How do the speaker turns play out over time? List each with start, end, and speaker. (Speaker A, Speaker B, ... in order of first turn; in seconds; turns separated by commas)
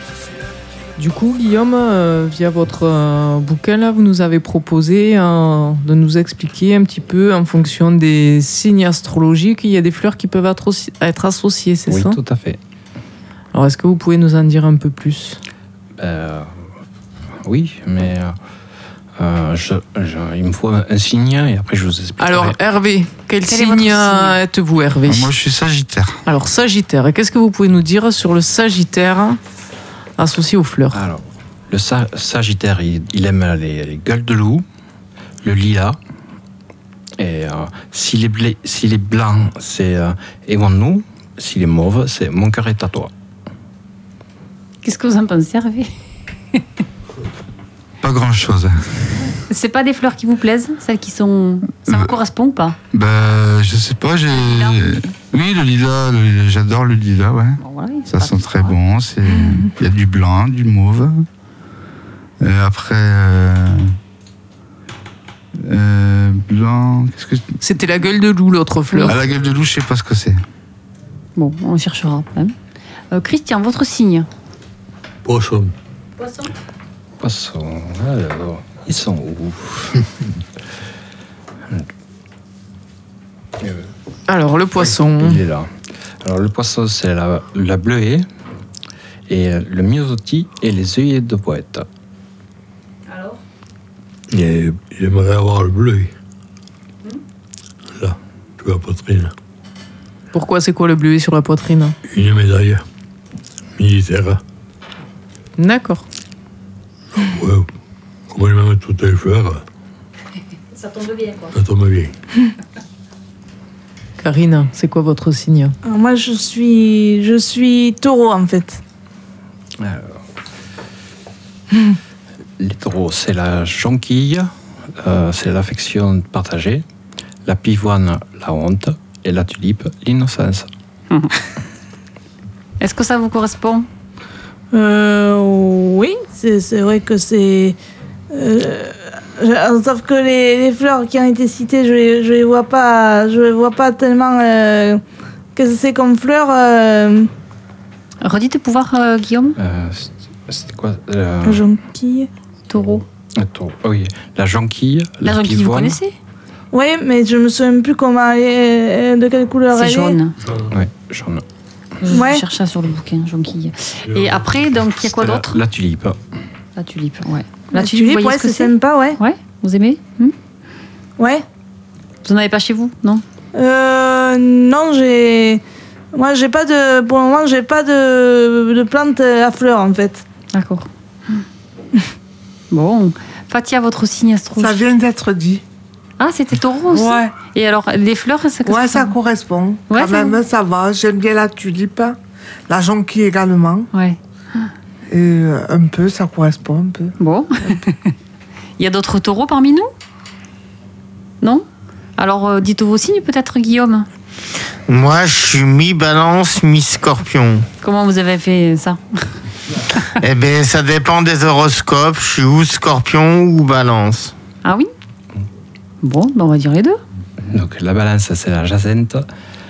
Speaker A: 1.0-12.2, Speaker B: 11.9-12.6, Speaker A: 13.5-15.4, Speaker B: 16.0-16.5, Speaker B: 17.4-18.3, Speaker B: 19.2-22.6, Speaker A: 22.2-25.3, Speaker C: 23.4-24.4, Speaker D: 25.1-26.2, Speaker A: 26.2-29.4, Speaker A: 30.2-31.0, Speaker B: 30.9-34.6, Speaker B: 35.4-36.0, Speaker B: 37.2-43.1, Speaker C: 44.8-45.9, Speaker D: 48.0-48.8, Speaker C: 49.5-52.8, Speaker D: 51.9-52.1, Speaker D: 52.9-61.2, Speaker C: 54.3-54.8, Speaker C: 57.6-58.7, Speaker D: 62.4-63.9, Speaker D: 65.5-67.5, Speaker A: 67.6-69.2, Speaker D: 69.0-70.4, Speaker C: 71.3-72.5, Speaker C: 73.1-74.3, Speaker E: 75.2-75.7, Speaker B: 77.2-80.0, Speaker A: 84.3-85.4, Speaker B: 84.8-88.2, Speaker B: 89.3-91.8, Speaker C: 93.1-93.4, Speaker E: 94.3-96.1, Speaker E: 97.9-99.3, Speaker A: 100.3-102.0, Speaker E: 102.1-102.8, Speaker E: 103.8-104.4, Speaker A: 105.6-106.0, Speaker E: 107.2-107.7, Speaker E: 108.3-109.6, Speaker C: 110.7-111.5, Speaker E: 111.5-112.1, Speaker A: 114.2-115.7, Speaker F: 115.8-118.8, Speaker B: 119.8-120.2, Speaker B: 122.6-126.8, Speaker B: 127.5-130.7, Speaker C: 132.8-133.9, Speaker F: 134.7-137.8, Speaker F: 138.3-145.0, Speaker F: 145.5-147.3, Speaker C: 148.2-149.6, Speaker B: 149.6-151.6, Speaker F: 151.4-152.3, Speaker C: 152.7-153.0, Speaker B: 153.4-156.0, Speaker C: 155.2-156.1, Speaker F: 156.7-160.2, Speaker C: 159.7-160.3, Speaker E: 160.4-160.7, Speaker B: 160.7-161.4, Speaker C: 162.0-165.6, Speaker F: 162.1-162.4, Speaker E: 164.1-164.4, Speaker B: 165.0-166.2, Speaker C: 166.8-170.3, Speaker F: 167.7-169.2, Speaker F: 171.2-171.4, Speaker C: 172.2-173.2, Speaker F: 173.5-175.6, Speaker F: 176.1-180.2, Speaker C: 180.5-181.4, Speaker C: 182.7-184.8, Speaker G: 184.6-185.6, Speaker C: 186.2-189.1, Speaker G: 186.9-187.3, Speaker G: 188.6-192.2, Speaker C: 189.9-190.3, Speaker G: 192.7-193.9, Speaker C: 193.9-194.7, Speaker G: 195.1-197.1, Speaker C: 197.2-198.1, Speaker C: 198.8-199.9, Speaker C: 202.2-204.1, Speaker H: 204.9-207.7, Speaker C: 207.8-209.2, Speaker H: 210.2-214.3, Speaker C: 214.6-214.9, Speaker C: 216.0-217.0, Speaker B: 217.5-219.3